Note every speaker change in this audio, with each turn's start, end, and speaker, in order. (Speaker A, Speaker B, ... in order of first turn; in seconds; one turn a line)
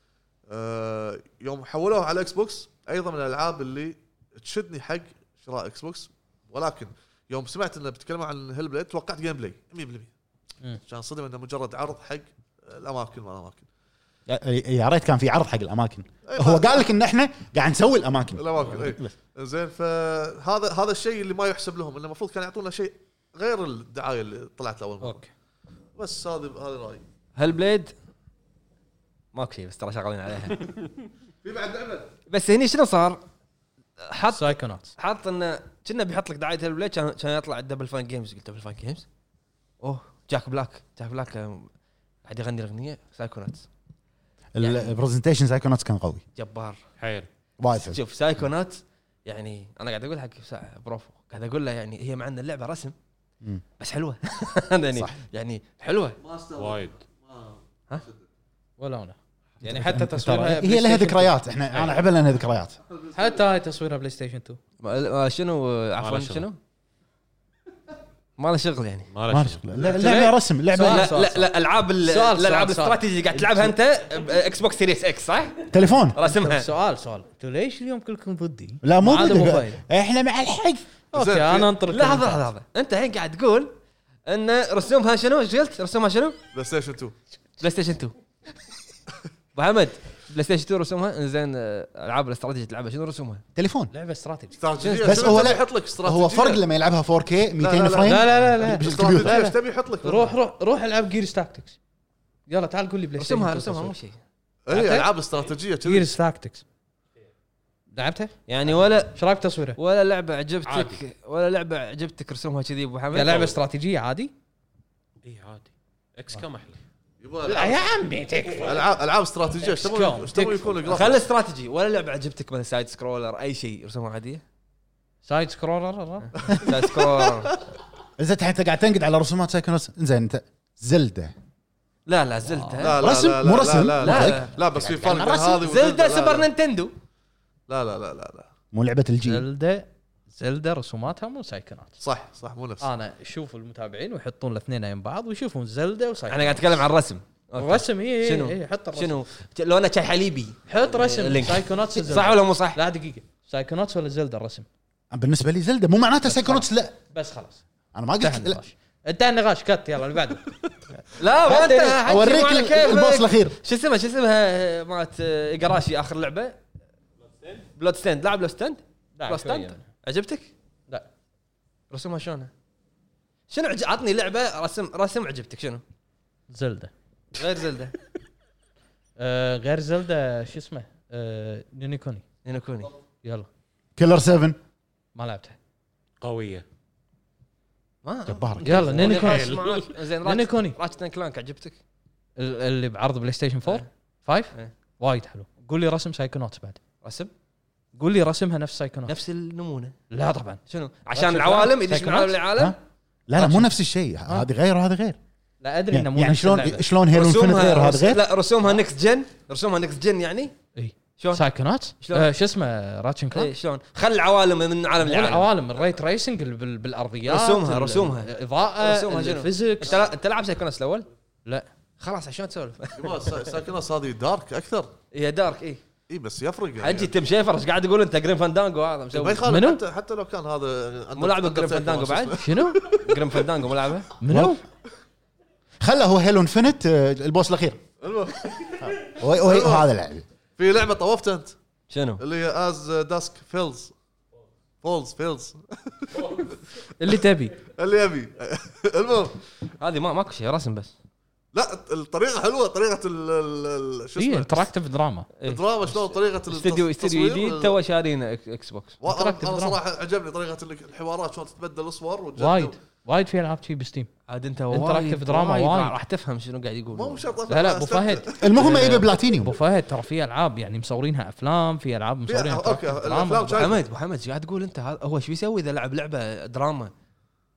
Speaker A: 0.5-10.1
Speaker A: 10.9-13.7
Speaker B: 14.3-19.1
Speaker A: 16.3-16.9
Speaker A: 18.4-25.2
Speaker C: 25.0-25.3
Speaker A: 25.9-27.0
Speaker D: 27.4-27.9
Speaker D: 29.3-30.7
Speaker A: 31.4-32.1
Speaker D: 32.3-33.2
Speaker D: 34.0-39.1
Speaker C: 34.3-34.9
Speaker D: 39.8-41.7
Speaker D: 42.2-43.7
Speaker B: 44.5-46.2
Speaker D: 44.6-44.9
Speaker D: 46.4-46.8
Speaker E: 47.0-47.3
Speaker B: 47.6-48.0
Speaker D: 47.7-52.9
Speaker D: 53.8-56.2
Speaker A: 56.2-58.2
Speaker E: 56.6-57.0
Speaker C: 58.8-61.4
Speaker B: 59.6-62.8
Speaker A: 62.9-63.4
Speaker C: 63.1-64.6
Speaker D: 64.8-66.6
Speaker E: 66.0-66.5
Speaker D: 68.4-69.1
Speaker E: 69.1-69.7
Speaker B: 69.3-71.3
Speaker C: 69.8-71.4
Speaker D: 70.8-76.7
Speaker C: 72.0-73.0
Speaker B: 75.7-76.2
Speaker C: 76.2-79.8
Speaker B: 78.8-80.8
Speaker C: 81.1-82.5
Speaker A: 81.1-81.7
Speaker D: 81.9-83.7
Speaker D: 84.3-86.4
Speaker A: 86.5-87.2
Speaker D: 87.6-88.2
Speaker D: 89.5-93.4
Speaker B: 93.6-93.9
Speaker C: 93.9-94.6
Speaker A: 94.6-96.6
Speaker D: 94.8-95.5
Speaker B: 95.0-99.4
Speaker A: 97.6-100.3
Speaker C: 98.0-101.8
Speaker C: 102.5-103.9
Speaker D: 103.2-104.2
Speaker A: 104.7-106.1
Speaker C: 104.7-105.1
Speaker C: 105.8-106.6
Speaker C: 107.9-108.4
Speaker D: 108.5-109.2
Speaker C: 109.1-109.8
Speaker D: 109.8-113.5
Speaker E: 110.7-111.0
Speaker C: 113.1-114.3
Speaker E: 115.2-116.8
Speaker A: 117.2-117.8
Speaker C: 117.4-118.8
Speaker A: 118.6-121.2
Speaker C: 119.6-120.8
Speaker D: 120.8-124.4
Speaker C: 125.2-126.3
Speaker A: 126.5-127.5
Speaker D: 126.6-127.6
Speaker B: 128.2-131.3
Speaker D: 132.1-133.2
Speaker C: 132.4-132.9
Speaker A: 132.8-136.5
Speaker B: 133.0-135.6
Speaker D: 134.0-134.5
Speaker D: 135.6-136.9
Speaker A: 137.7-138.5
Speaker B: 138.7-139.4
Speaker C: 139.2-142.0
Speaker A: 142.0-142.9
Speaker C: 142.8-146.8
Speaker D: 146.3-152.8
Speaker C: 147.6-149.2
Speaker C: 150.7-154.7
Speaker B: 155.1-156.9
Speaker C: 156.2-157.6
Speaker B: 157.9-158.6
Speaker C: 158.2-160.6
Speaker D: 161.2-166.6
Speaker C: 161.4-162.0
Speaker B: 161.5-163.6
Speaker E: 167.3-167.7
Speaker D: 167.8-170.5
Speaker C: 169.2-169.8
Speaker D: 171.9-172.5
Speaker D: 173.5-175.8
Speaker C: 176.5-176.9
Speaker D: 177.3-177.9
Speaker C: 179.2-182.2
Speaker D: 182.4-182.9
Speaker C: 183.2-183.5
Speaker B: 183.9-184.6
Speaker C: 185.2-185.6
Speaker E: 186.2-186.7
Speaker D: 188.0-191.8
Speaker B: 188.3-188.9
Speaker C: 188.6-189.6
Speaker E: 188.9-189.9
Speaker C: 190.2-190.8
Speaker C: 192.4-196.8
Speaker D: 197.0-197.3
Speaker C: 197.9-199.2
Speaker D: 199.1-199.9
Speaker C: 200.1-200.6
Speaker D: 200.7-202.8
Speaker C: 201.2-202.4
Speaker B: 203.3-205.2
Speaker D: 203.4-203.7
Speaker C: 205.6-206.9
Speaker B: 205.9-208.2
Speaker D: 207.1-210.5
Speaker C: 210.8-213.5
Speaker D: 211.2-211.4
Speaker D: 212.0-212.3
Speaker D: 213.3-215.5
Speaker C: 215.0-220.0
Speaker D: 217.3-221.1
Speaker D: 222.0-223.4
Speaker A: 222.9-224.9
Speaker D: 225.1-225.8
Speaker A: 226.1-227.1
Speaker D: 226.8-229.5
Speaker A: 229.1-233.4
Speaker C: 229.4-229.8
Speaker D: 231.2-234.1
Speaker C: 232.4-232.8
Speaker C: 234.2-234.6
Speaker B: 234.3-234.6
Speaker B: 235.8-237.8
Speaker A: 238.0-239.9
Speaker B: 238.9-240.2
Speaker A: 240.6-241.6
Speaker D: 241.9-242.2
Speaker A: 242.2-243.9
Speaker A: 244.8-246.6
Speaker C: 247.0-247.6
Speaker A: 247.7-249.4
Speaker D: 249.8-250.9
Speaker A: 251.5-254.7
Speaker C: 254.2-255.3
Speaker D: 255.4-259.0
Speaker A: 255.4-257.8
Speaker A: 259.0-262.7
Speaker C: 259.1-259.8
Speaker C: 262.4-264.1
Speaker D: 264.3-267.3
Speaker C: 264.7-265.9
Speaker A: 266.9-268.6
Speaker C: 267.5-273.7
Speaker B: 268.4-269.6
Speaker A: 272.3-273.8
Speaker D: 273.6-276.9